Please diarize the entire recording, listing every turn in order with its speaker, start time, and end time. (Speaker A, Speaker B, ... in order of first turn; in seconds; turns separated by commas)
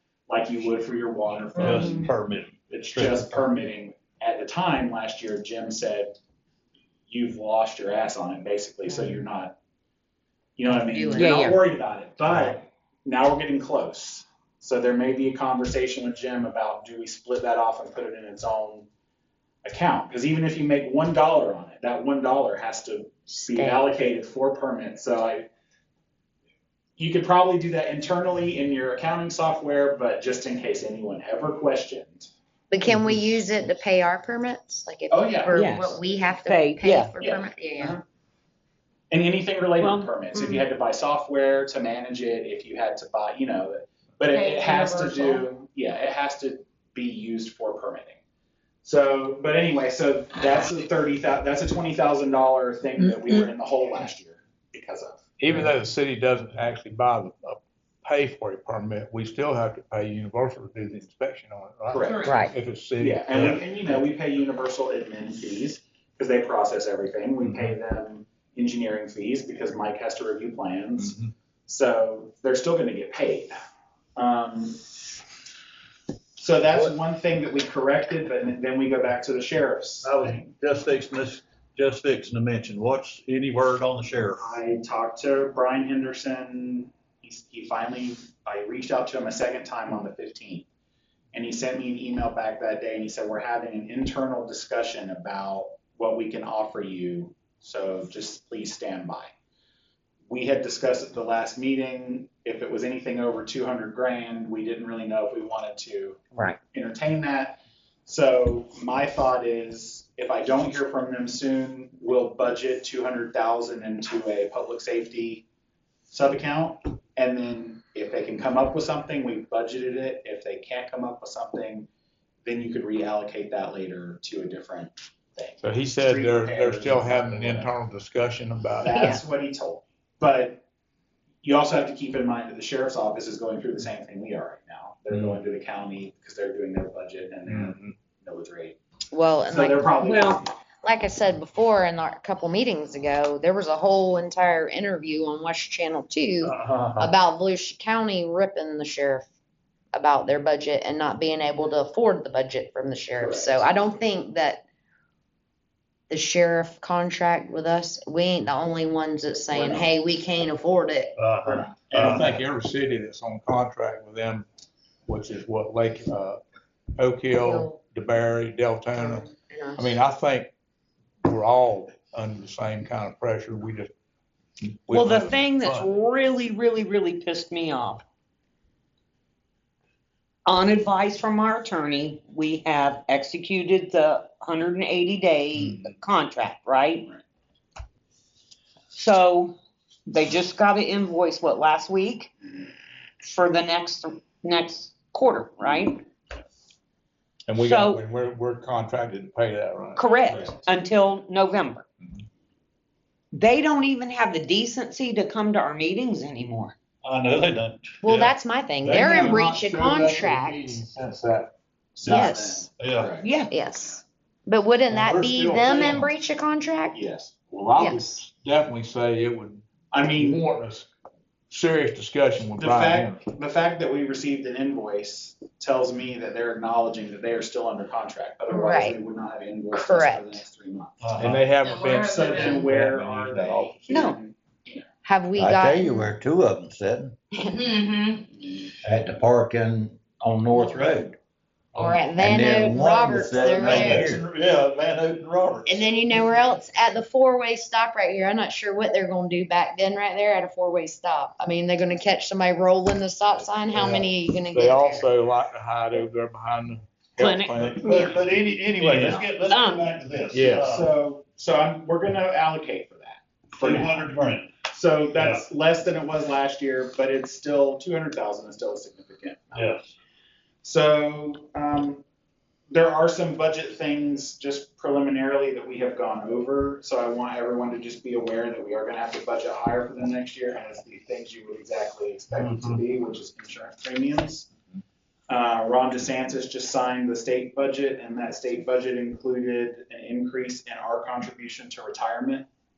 Speaker A: 0.3-2.1, Speaker B: 1.6-3.5, Speaker C: 1.6-2.1, Speaker A: 2.7-6.1, Speaker A: 7.1-9.6, Speaker A: 10.6-18.9, Speaker C: 10.7-11.6, Speaker D: 11.2-11.6, Speaker A: 19.6-25.5, Speaker C: 23.3-23.8, Speaker A: 27.0-32.3, Speaker C: 32.7-38.0, Speaker A: 35.1-35.7, Speaker D: 35.5-37.1, Speaker A: 37.2-38.0, Speaker A: 39.1-48.2, Speaker D: 39.8-40.1, Speaker E: 44.3-45.4, Speaker A: 48.8-55.2, Speaker E: 53.0-53.4, Speaker F: 55.4-63.8, Speaker A: 61.9-62.3, Speaker E: 62.0-62.5, Speaker A: 63.0-74.8, Speaker A: 76.4-80.5, Speaker B: 80.0-84.5, Speaker A: 84.3-90.7, Speaker A: 91.3-99.3, Speaker A: 100.3-115.4, Speaker A: 116.1-121.9, Speaker A: 122.4-127.7, Speaker F: 125.6-129.0, Speaker A: 128.8-130.6, Speaker A: 131.4-138.8, Speaker C: 139.1-139.9, Speaker A: 139.5-140.4, Speaker D: 140.0-140.4, Speaker C: 140.8-149.2, Speaker B: 146.4-147.1, Speaker C: 149.9-154.6, Speaker A: 153.2-153.6, Speaker C: 156.1-161.6, Speaker A: 159.5-159.9, Speaker B: 161.2-162.4, Speaker F: 161.9-164.4, Speaker F: 165.1-166.4, Speaker F: 167.0-170.5, Speaker C: 167.3-167.8, Speaker C: 168.9-169.9, Speaker F: 171.2-173.9, Speaker F: 174.9-175.9, Speaker D: 174.9-178.0, Speaker D: 180.5-187.1, Speaker D: 188.9-189.5, Speaker D: 190.1-192.3, Speaker D: 193.2-196.0, Speaker F: 197.5-200.5, Speaker D: 197.6-198.0, Speaker D: 199.9-201.8, Speaker A: 200.3-200.7, Speaker D: 203.3-206.7, Speaker B: 207.0-208.1, Speaker C: 208.0-210.8, Speaker F: 208.8-211.5, Speaker A: 211.9-213.3, Speaker C: 212.0-212.7, Speaker B: 212.8-213.1, Speaker D: 213.2-213.5, Speaker C: 213.5-217.0, Speaker F: 214.9-216.1, Speaker A: 216.9-217.3, Speaker F: 217.5-220.9, Speaker C: 217.8-218.1, Speaker A: 219.9-220.4, Speaker F: 221.5-223.2, Speaker A: 222.6-231.3, Speaker C: 228.5-229.0, Speaker C: 229.7-230.4, Speaker B: 231.0-231.4, Speaker F: 231.2-234.1, Speaker E: 231.6-232.7, Speaker A: 231.9-234.8, Speaker D: 233.9-234.2, Speaker C: 235.0-236.1, Speaker G: 235.3-237.1, Speaker E: 237.5-238.2, Speaker G: 238.8-241.2, Speaker G: 241.8-244.2, Speaker C: 241.8-244.1, Speaker B: 243.6-245.9, Speaker C: 245.7-255.1, Speaker F: 253.7-257.9, Speaker D: 257.2-257.5, Speaker B: 257.5-260.9, Speaker A: 258.8-259.3, Speaker D: 259.5-259.8, Speaker F: 260.3-260.7, Speaker A: 260.5-264.1, Speaker B: 263.6-264.5, Speaker A: 264.7-269.7, Speaker B: 265.1-265.4, Speaker B: 269.5-269.9, Speaker A: 270.6-272.0, Speaker A: 272.7-284.5, Speaker B: 282.3-282.8, Speaker A: 285.3-292.5